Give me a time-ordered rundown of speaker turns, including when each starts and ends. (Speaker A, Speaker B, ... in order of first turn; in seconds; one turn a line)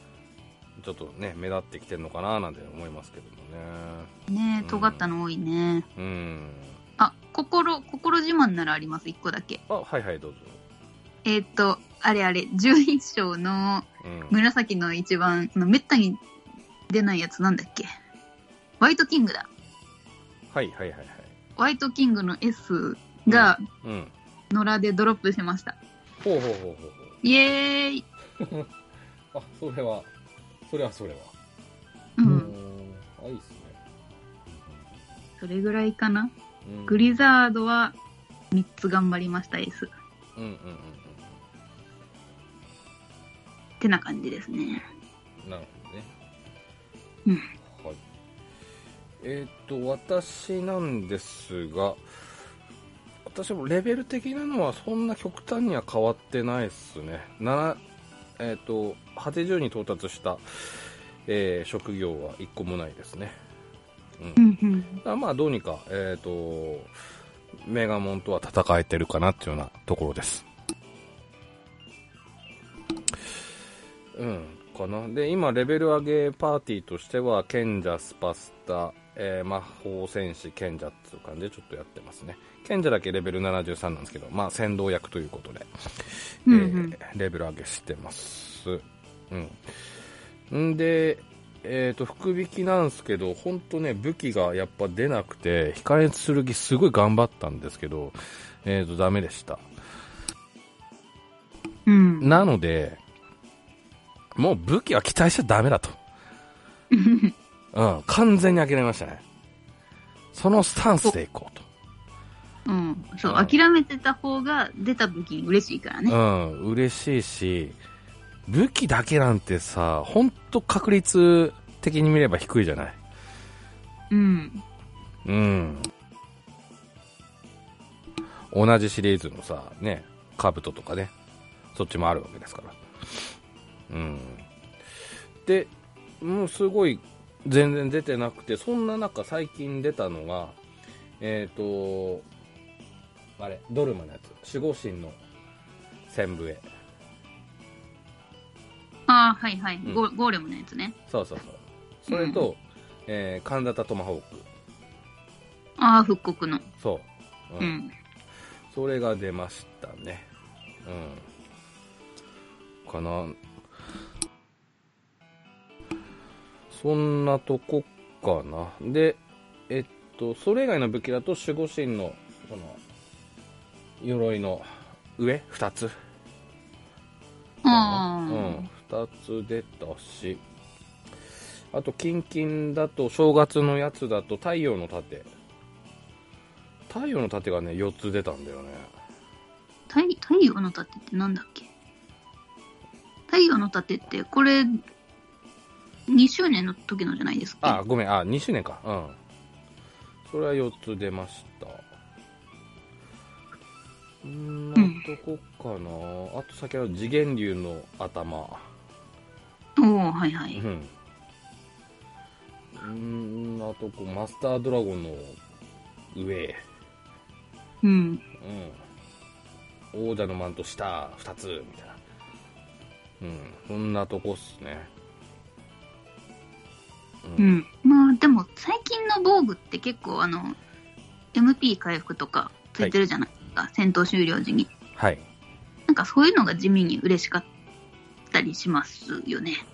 Speaker A: 0.8-4.1
Speaker B: 4.3-5.8
Speaker A: 4.6-5.1
Speaker A: 6.0-6.8
Speaker B: 7.0-9.6
Speaker A: 9.7-10.6
Speaker B: 11.2-16.2
Speaker A: 14.0-14.3
Speaker B: 16.9-17.9
Speaker B: 18.8-19.5
Speaker A: 20.5-21.3
Speaker B: 21.6-23.6
Speaker A: 23.3-24.1
Speaker B: 24.5-25.8
Speaker A: 26.2-27.1
Speaker B: 27.2-28.0
Speaker A: 28.4-28.7
Speaker A: 29.3-30.1
Speaker A: 30.7-31.3
Speaker B: 32.2-32.5
Speaker A: 32.2-33.8
Speaker A: 34.5-34.8
Speaker B: 35.4-36.3
Speaker A: 36.6-37.2
Speaker B: 36.9-38.0
Speaker B: 38.5-39.9
Speaker A: 40.4-41.2
Speaker B: 43.8-44.8
Speaker A: 45.4-46.1
Speaker A: 47.7-48.0
Speaker A: 49.2-52.0
Speaker A: 53.2-57.8
Speaker A: 58.4-63.3
Speaker B: 64.4-65.0
Speaker A: 65.0-66.9
Speaker A: 67.6-70.4
Speaker A: 74.1-89.9
Speaker B: 86.5-87.0
Speaker A: 90.5-99.6
Speaker B: 101.8-102.4
Speaker A: 102.2-103.0
Speaker A: 104.3-106.0
Speaker B: 106.9-107.3
Speaker A: 107.7-109.2
Speaker A: 110.3-111.6
Speaker B: 112.7-116.2
Speaker A: 113.2-113.5
Speaker A: 116.1-117.8
Speaker A: 118.5-123.0
Speaker B: 124.1-124.6
Speaker A: 125.2-125.9
Speaker A: 128.5-131.1
Speaker A: 131.7-133.3
Speaker A: 133.9-134.4
Speaker A: 135.4-140.6
Speaker A: 141.2-142.2
Speaker A: 143.4-145.2
Speaker A: 146.1-146.6
Speaker B: 149.1-150.9
Speaker A: 151.1-154.5
Speaker B: 152.1-152.4
Speaker B: 155.8-156.7
Speaker A: 156.8-157.7
Speaker B: 157.6-157.9
Speaker A: 158.7-160.2
Speaker A: 160.8-161.2
Speaker A: 162.8-163.3
Speaker A: 166.7-172.8
Speaker A: 174.0-175.9
Speaker B: 177.6-178.7
Speaker A: 177.7-180.4
Speaker A: 181.7-185.3
Speaker A: 186.9-188.9
Speaker B: 189.9-191.7
Speaker B: 193.3-194.8
Speaker B: 196.1-197.8
Speaker A: 197.6-199.2
Speaker A: 200.3-201.8
Speaker A: 204.2-208.7
Speaker B: 204.8-205.0
Speaker B: 209.8-210.6
Speaker A: 210.5-210.9
Speaker A: 212.8-215.4
Speaker A: 216.1-216.6
Speaker B: 217.8-218.2
Speaker A: 218.4-218.8
Speaker A: 219.9-222.0
Speaker A: 223.2-224.9
Speaker A: 227.2-227.6
Speaker B: 227.4-230.6
Speaker B: 231.3-234.7
Speaker A: 234.9-235.2
Speaker B: 235.9-237.5
Speaker B: 238.3-239.6